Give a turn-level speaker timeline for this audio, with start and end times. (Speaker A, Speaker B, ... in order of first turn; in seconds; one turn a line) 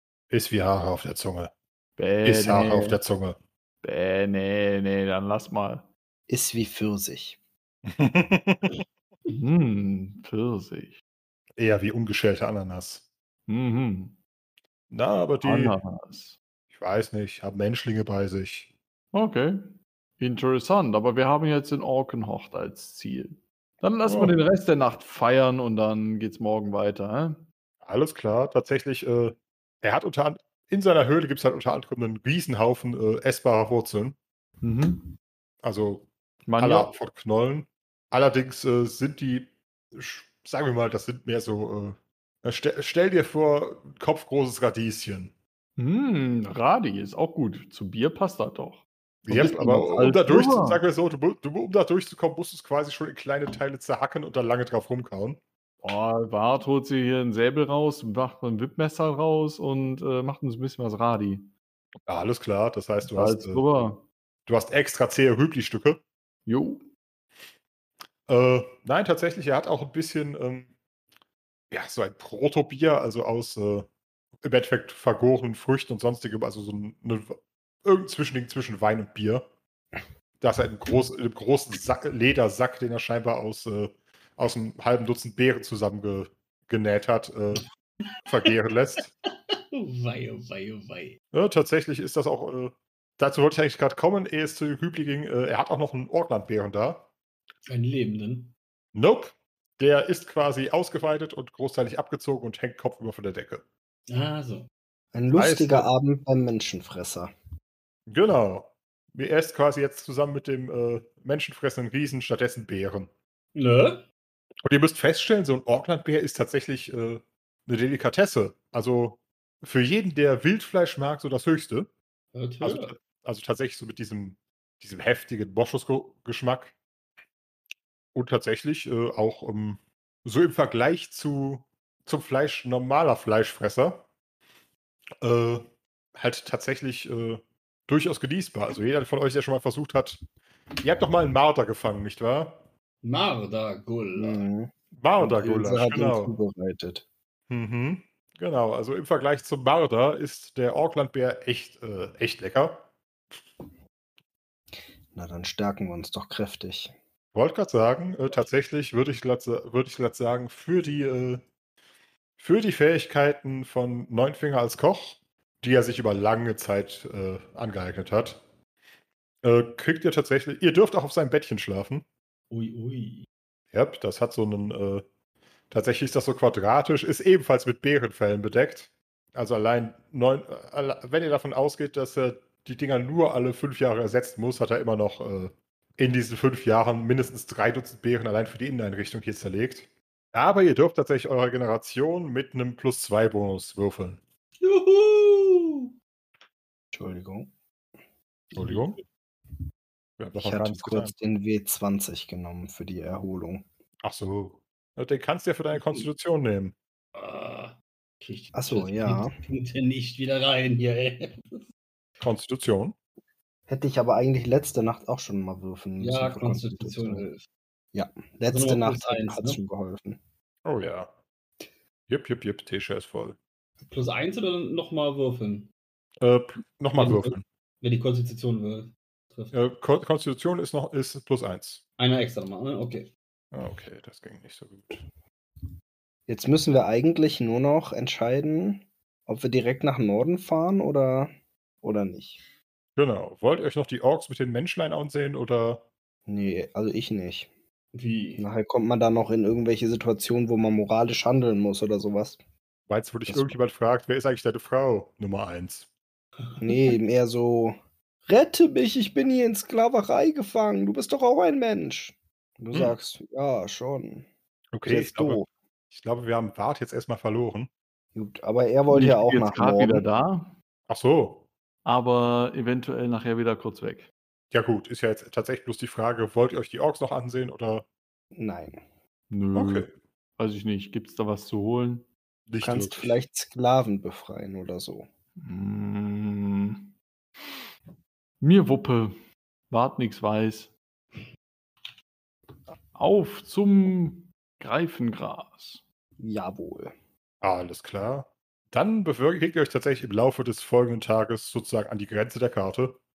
Speaker A: 0.3-1.5
Speaker B: 2.0-3.0
Speaker A: 2.2-3.4
Speaker B: 3.8-5.9
Speaker C: 6.3-7.4
Speaker A: 7.9-8.8
Speaker B: 9.3-11.0
Speaker A: 11.6-13.1
Speaker B: 13.5-14.2
Speaker A: 14.9-15.8
Speaker B: 15.4-16.4
Speaker A: 16.7-18.7
Speaker B: 19.1-27.4
Speaker A: 24.1-24.4
Speaker A: 27.8-34.2
Speaker B: 34.6-35.1
Speaker A: 35.6-45.3
Speaker B: 36.5-36.9
Speaker B: 45.8-50.8
Speaker A: 49.2-55.4
Speaker B: 55.8-61.5
Speaker A: 62.1-63.7
Speaker B: 63.0-64.1
Speaker A: 64.5-66.0
Speaker B: 66.5-66.9
Speaker A: 68.3-70.7
Speaker A: 71.7-73.9
Speaker A: 74.4-79.5
Speaker A: 80.4-87.7
Speaker A: 88.3-89.1
Speaker D: 89.7-91.2
Speaker A: 91.3-97.1
Speaker D: 97.7-98.5
Speaker A: 98.9-103.7
Speaker D: 104.1-104.7
Speaker C: 105.1-107.3
Speaker A: 105.3-105.9
Speaker A: 108.1-113.1
Speaker D: 113.5-114.0
Speaker A: 114.6-121.9
Speaker D: 122.3-122.9
Speaker A: 122.6-126.8
Speaker A: 128.1-134.1
Speaker A: 135.2-140.2
Speaker A: 140.8-142.7
Speaker D: 143.0-144.4
Speaker C: 144.2-147.1
Speaker A: 145.0-146.4
Speaker A: 147.5-152.9
Speaker C: 155.1-156.9
Speaker A: 157.3-161.4
Speaker A: 162.4-168.4
Speaker A: 169.4-172.1
Speaker D: 172.5-173.3
Speaker A: 173.7-175.0
Speaker A: 175.7-194.2
Speaker D: 194.6-195.9
Speaker C: 196.9-197.5
Speaker D: 198.5-199.0
Speaker A: 198.6-199.0
Speaker A: 200.2-201.1
Speaker C: 200.4-203.7
Speaker A: 204.0-206.7
Speaker D: 205.7-206.1
Speaker D: 207.2-211.6
Speaker C: 208.5-209.4
Speaker A: 212.2-213.0
Speaker C: 213.7-217.3
Speaker D: 216.0-217.4
Speaker C: 217.9-220.2
Speaker D: 218.5-219.6
Speaker A: 220.7-221.1
Speaker A: 222.1-223.4
Speaker D: 223.8-225.7
Speaker A: 226.2-227.4
Speaker D: 227.0-229.5
Speaker A: 229.5-231.8
Speaker D: 232.0-233.1
Speaker A: 233.5-235.0
Speaker C: 236.3-241.3
Speaker C: 241.8-242.4
Speaker A: 243.0-245.9
Speaker C: 246.3-247.5
Speaker D: 247.9-248.4
Speaker C: 248.4-252.4
Speaker A: 252.9-255.9
Speaker C: 253.3-253.6
Speaker C: 256.6-257.8
Speaker C: 258.3-264.3
Speaker A: 264.7-267.7
Speaker C: 264.8-265.5
Speaker C: 268.1-270.1
Speaker B: 268.9-270.6
Speaker A: 270.9-271.5
Speaker B: 271.9-274.1
Speaker A: 274.5-277.9
Speaker C: 278.3-278.8
Speaker B: 279.3-282.1
Speaker A: 279.6-279.9
Speaker A: 282.5-283.2
Speaker C: 282.6-285.1
Speaker B: 285.4-286.9
Speaker B: 288.4-289.2
Speaker B: 289.7-290.7
Speaker B: 292.9-295.8
Speaker C: 296.2-296.9
Speaker A: 297.4-303.0